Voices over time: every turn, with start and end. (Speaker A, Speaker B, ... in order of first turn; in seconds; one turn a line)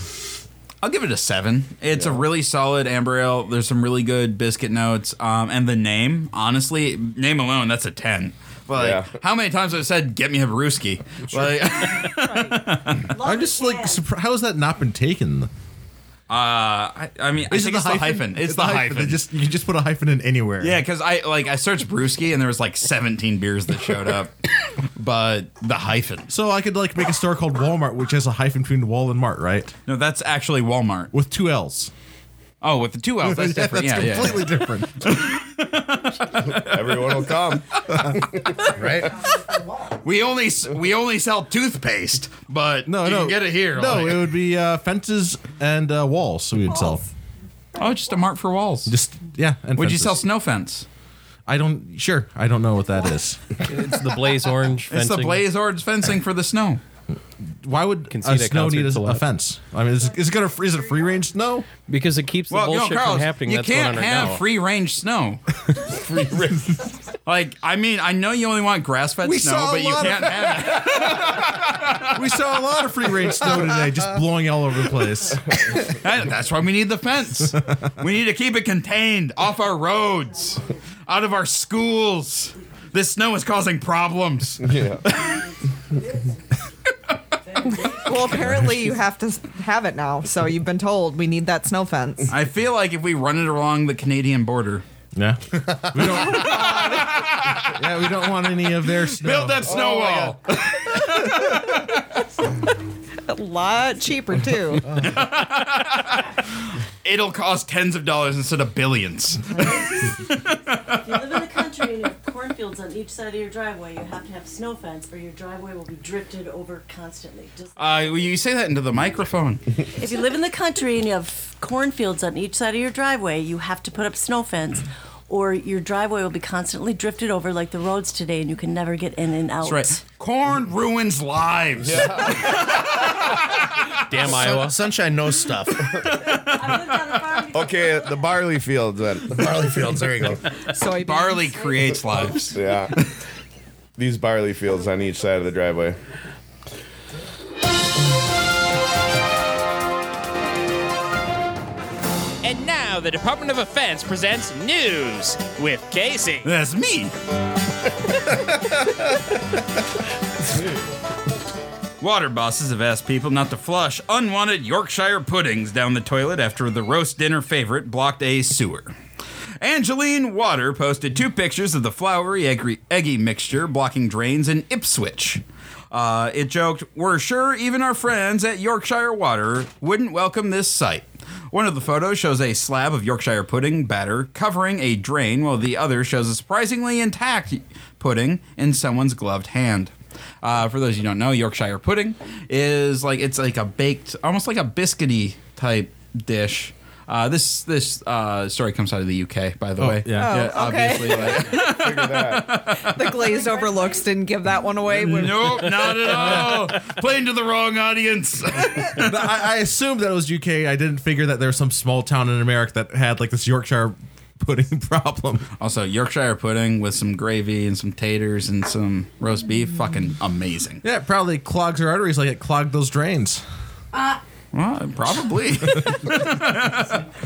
Speaker A: 0.8-13.2
Speaker B: 8.7-9.1
Speaker C: 13.0-14.0
Speaker D: 13.1-15.5
Speaker A: 16.3-19.2
Speaker D: 17.5-20.8
Speaker A: 20.6-26.3
Speaker D: 26.3-29.7
Speaker A: 29.9-31.1
Speaker D: 31.1-31.9
Speaker A: 32.6-37.4
Speaker D: 33.2-35.3
Speaker B: 36.5-37.8
Speaker E: 38.7-39.2
Speaker A: 39.9-44.4
Speaker D: 42.9-47.0
Speaker A: 47.7-48.9
Speaker D: 48.9-50.2
Speaker A: 49.8-50.9
Speaker D: 51.5-53.7
Speaker F: 53.6-55.4
Speaker A: 54.9-56.8
Speaker D: 57.6-61.7
Speaker F: 58.1-59.2
Speaker F: 61.9-64.4
Speaker A: 62.5-65.4
Speaker A: 67.2-72.4
Speaker D: 69.2-70.9
Speaker D: 72.0-75.6
Speaker A: 75.8-85.3
Speaker B: 84.6-85.0
Speaker G: 87.8-92.3
Speaker A: 92.3-94.8
Speaker D: 95.2-96.7
Speaker G: 96.0-97.2
Speaker A: 96.1-97.9
Speaker D: 97.6-99.7
Speaker A: 98.9-102.0
Speaker B: 99.6-100.4
Speaker G: 103.3-105.0
Speaker A: 104.9-109.7
Speaker C: 109.5-110.2
Speaker A: 110.3-111.1
Speaker C: 110.8-118.3
Speaker A: 117.8-119.6
Speaker C: 119.9-130.0
Speaker A: 129.6-134.0
Speaker B: 131.8-132.7
Speaker F: 134.1-134.9
Speaker E: 134.2-136.0
Speaker A: 136.0-136.9
Speaker C: 136.0-138.4
Speaker B: 137.5-139.8
Speaker E: 139.3-140.4
Speaker G: 140.7-141.6
Speaker A: 141.0-143.1
Speaker B: 142.5-142.9
Speaker B: 144.0-146.0
Speaker H: 152.4-156.5
Speaker A: 156.4-157.1
Speaker A: 162.0-168.9
Speaker A: 169.6-203.2
Speaker D: 199.8-200.5
Speaker G: 200.1-201.5
Speaker B: 200.9-202.6
Speaker G: 202.8-206.0
Speaker C: 203.2-204.1
Speaker A: 204.9-209.0
Speaker D: 206.1-206.6
Speaker D: 208.9-215.5
Speaker A: 215.6-220.8
Speaker D: 220.8-223.4
Speaker A: 224.5-227.1